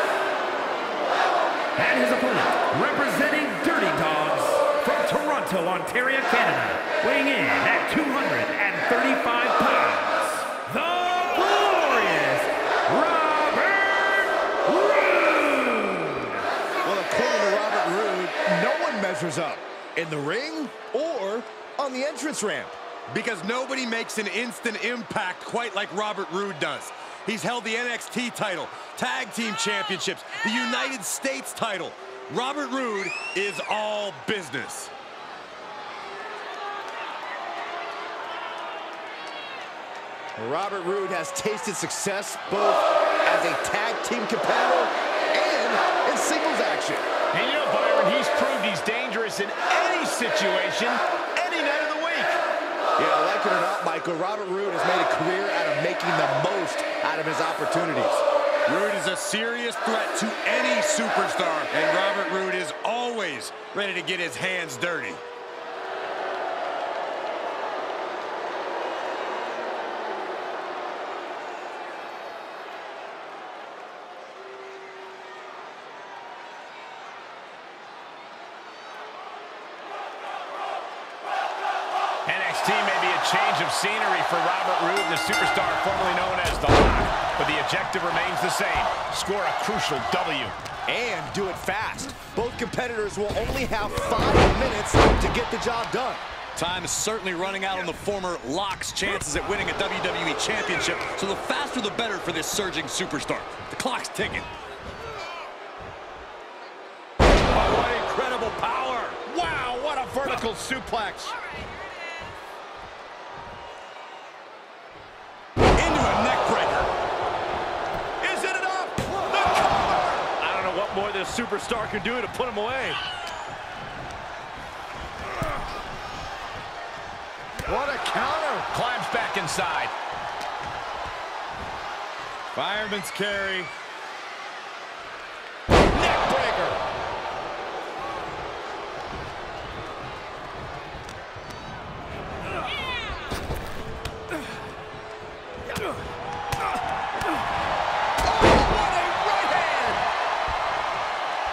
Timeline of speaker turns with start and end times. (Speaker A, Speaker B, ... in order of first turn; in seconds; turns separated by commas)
Speaker A: 1.8-13.9, Speaker B: 16.8-22.8, Speaker C: 23.1-34.9, Speaker B: 40.4-47.1, Speaker D: 47.3-52.4, Speaker B: 53.0-58.2, Speaker C: 58.7-65.2, Speaker D: 82.3-90.5, Speaker B: 90.9-96.3, Speaker C: 96.6-104.5, Speaker C: 107.5-109.2, Speaker D: 109.3-111.3, Speaker C: 115.8-116.9, Speaker D: 118.2-120.3, Speaker B: 127.7-128.7, Speaker D: 128.7-129.9, Speaker C: 132.6-133.7, Speaker D: 135.9-136.8, Speaker B: 148.3-150.0